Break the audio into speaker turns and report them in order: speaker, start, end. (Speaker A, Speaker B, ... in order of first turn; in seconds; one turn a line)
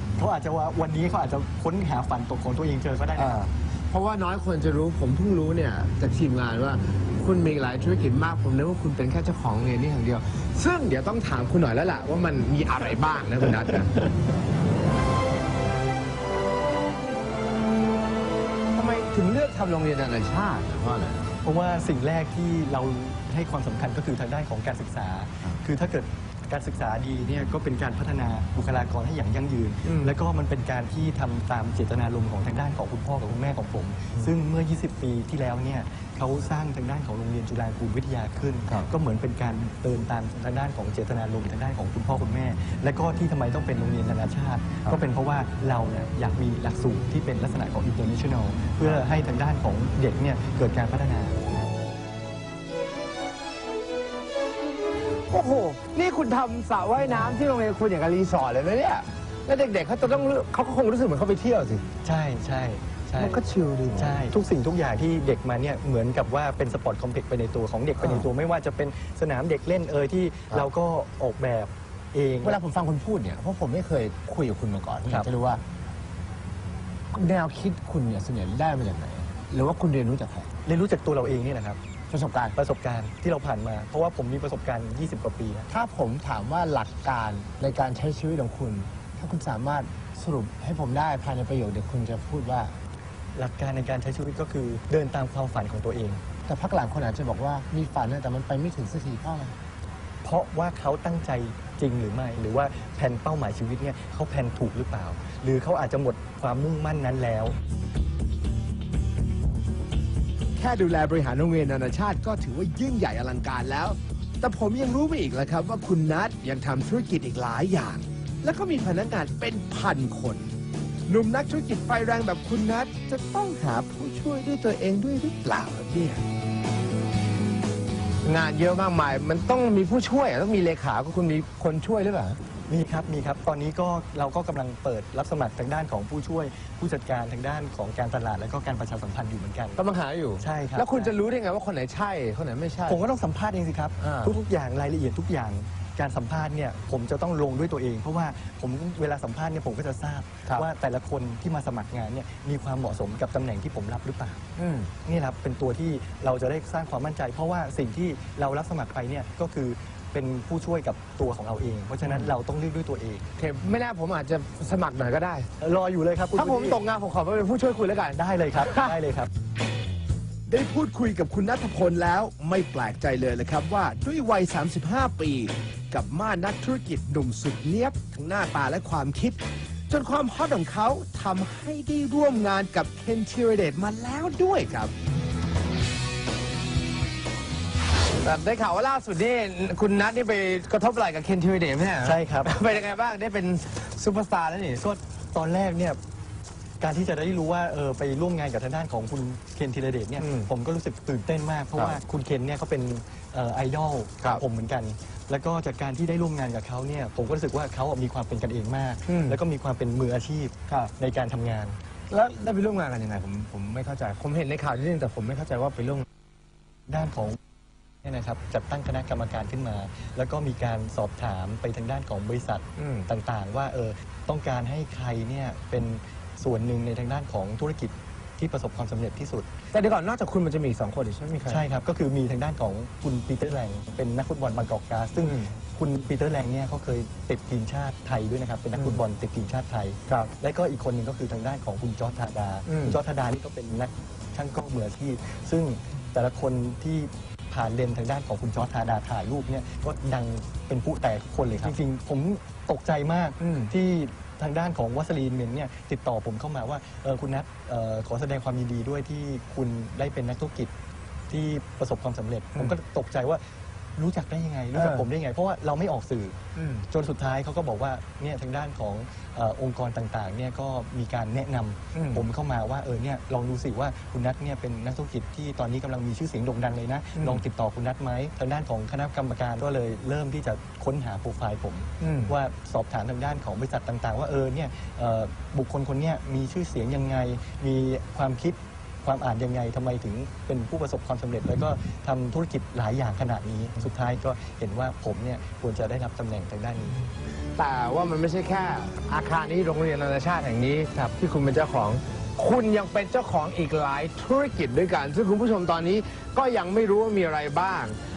Speaker A: 0.2-3.5
Speaker B: 3.1-14.0
Speaker B: 18.7-21.3
Speaker A: 21.4-51.4
Speaker B: 29.9-30.1
Speaker B: 38.7-38.9
Speaker B: 55.3-61.8
Speaker A: 57.0-57.4
Speaker A: 62.0-63.4
Speaker B: 63.2-64.2
Speaker A: 63.9-72.6
Speaker B: 68.0-68.3
Speaker B: 72.4-75.6
Speaker B: 77.1-80.5
Speaker A: 80.6-81.8
Speaker B: 82.1-82.5
Speaker A: 82.5-85.7
Speaker B: 85.7-92.7
Speaker A: 93.3-96.2
Speaker B: 96.5-99.5
Speaker A: 100.2-107.5
Speaker C: 110.6-120.5
Speaker C: 121.1-126.2
Speaker B: 128.2-132.3
Speaker A: 132.7-139.8
Speaker B: 139.8-143.0
Speaker A: 140.4-141.2
Speaker A: 142.9-154.4
Speaker B: 144.0-144.3
Speaker B: 154.6-154.9
Speaker A: 155.0-163.2
Speaker B: 162.0-162.3
Speaker B: 163.4-165.4
Speaker A: 165.6-166.8
Speaker B: 166.3-169.0
Speaker A: 168.2-169.3
Speaker C: 170.5-184.9
Speaker B: 188.2-194.8
Speaker A: 192.0-192.6
Speaker A: 194.8-196.0
Speaker A: 196.8-211.8
Speaker B: 200.2-200.5
Speaker B: 209.1-209.4
Speaker B: 212.1-216.0
Speaker A: 216.9-217.4
Speaker A: 218.0-229.5
Speaker B: 222.8-223.1
Speaker B: 229.7-231.6
Speaker A: 231.5-260.7
Speaker B: 235.2-235.5
Speaker B: 242.7-243.0
Speaker B: 253.4-253.7
Speaker A: 261.3-263.4
Speaker A: 263.9-266.3
Speaker B: 264.7-265.1
Speaker B: 266.6-266.9
Speaker A: 266.9-297.0
Speaker B: 271.9-272.2
Speaker B: 277.1-277.4
Speaker B: 282.0-282.4
Speaker B: 297.6-307.9